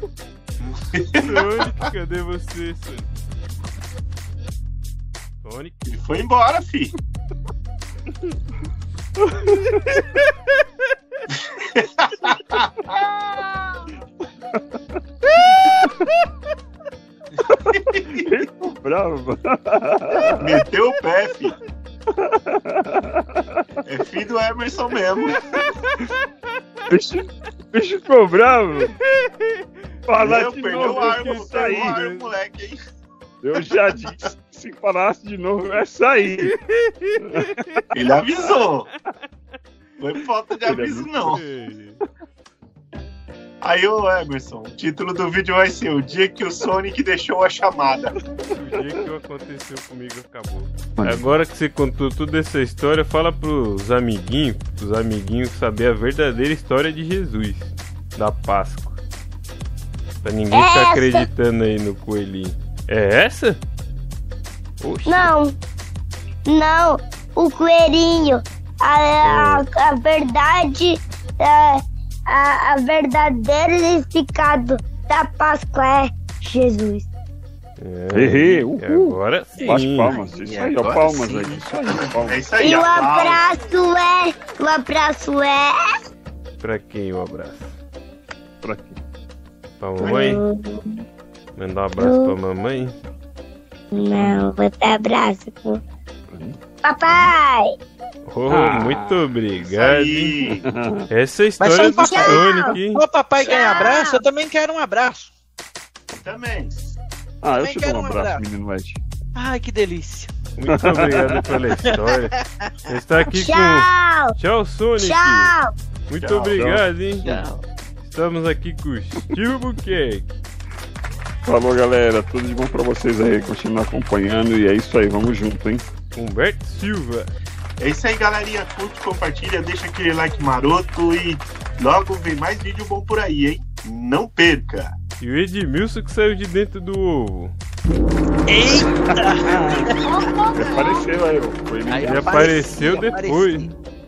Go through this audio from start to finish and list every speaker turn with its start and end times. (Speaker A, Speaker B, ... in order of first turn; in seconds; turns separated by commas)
Speaker A: 0.6-1.7, Speaker B: 1.2-3.1, Speaker B: 5.4-5.8, Speaker A: 5.8-6.9, Speaker C: 9.2-10.0, Speaker A: 11.3-12.7, Speaker C: 14.5-15.0, Speaker C: 15.6-15.9, Speaker A: 17.7-18.3, Speaker C: 18.1-20.4, Speaker A: 20.4-21.6, Speaker C: 22.2-23.7, Speaker A: 23.9-25.7, Speaker C: 26.9-28.9, Speaker B: 29.0-29.6, Speaker C: 30.1-32.0, Speaker A: 30.2-32.8, Speaker B: 30.9-32.3, Speaker C: 33.4-36.5, Speaker A: 33.6-34.1, Speaker B: 36.6-37.8, Speaker C: 37.2-37.6, Speaker A: 37.9-38.9, Speaker B: 38.4-38.8, Speaker A: 40.0-41.4, Speaker C: 40.6-41.4, Speaker B: 41.3-42.0, Speaker A: 43.6-48.1, Speaker B: 48.5-59.0, Speaker C: 51.0-51.2, Speaker B: 60.2-63.6, Speaker D: 60.5-61.3, Speaker B: 64.8-65.3, Speaker D: 65.0-65.5, Speaker D: 66.5-77.1, Speaker B: 69.2-69.6, Speaker B: 77.8-80.1, Speaker C: 78.1-82.4, Speaker A: 80.1-83.4, Speaker D: 82.6-85.8, Speaker B: 86.6-87.7, Speaker C: 88.6-89.0, Speaker B: 89.8-90.4, Speaker D: 90.0-91.0, Speaker B: 91.5-93.0, Speaker D: 92.0-92.3, Speaker D: 93.9-95.8, Speaker C: 96.3-96.6, Speaker D: 96.8-97.7, Speaker B: 98.2-100.5, Speaker C: 98.5-99.3, Speaker A: 99.6-100.7, Speaker C: 100.6-101.0, Speaker B: 101.1-103.0, Speaker E: 101.6-105.3, Speaker D: 101.8-102.8, Speaker D: 103.4-104.2, Speaker A: 106.2-106.8, Speaker C: 107.4-109.0, Speaker E: 107.5-108.4, Speaker E: 109.3-110.3, Speaker B: 110.5-112.3, Speaker C: 110.7-111.5, Speaker E: 111.8-112.3, Speaker B: 112.8-115.5, Speaker D: 113.3-114.3, Speaker D: 115.0-115.7, Speaker B: 116.1-117.4, Speaker A: 116.2-116.7, Speaker C: 116.5-116.8, Speaker E: 117.2-117.6, Speaker B: 118.0-120.3, Speaker C: 121.4-125.8, Speaker B: 126.1-127.3, Speaker A: 127.8-134.9, Speaker B: 135.2-137.5, Speaker E: 138.5-139.9, Speaker C: 138.8-139.9, Speaker D: 140.0-141.1, Speaker C: 140.5-142.9, Speaker E: 141.9-143.7, Speaker B: 142.0-143.7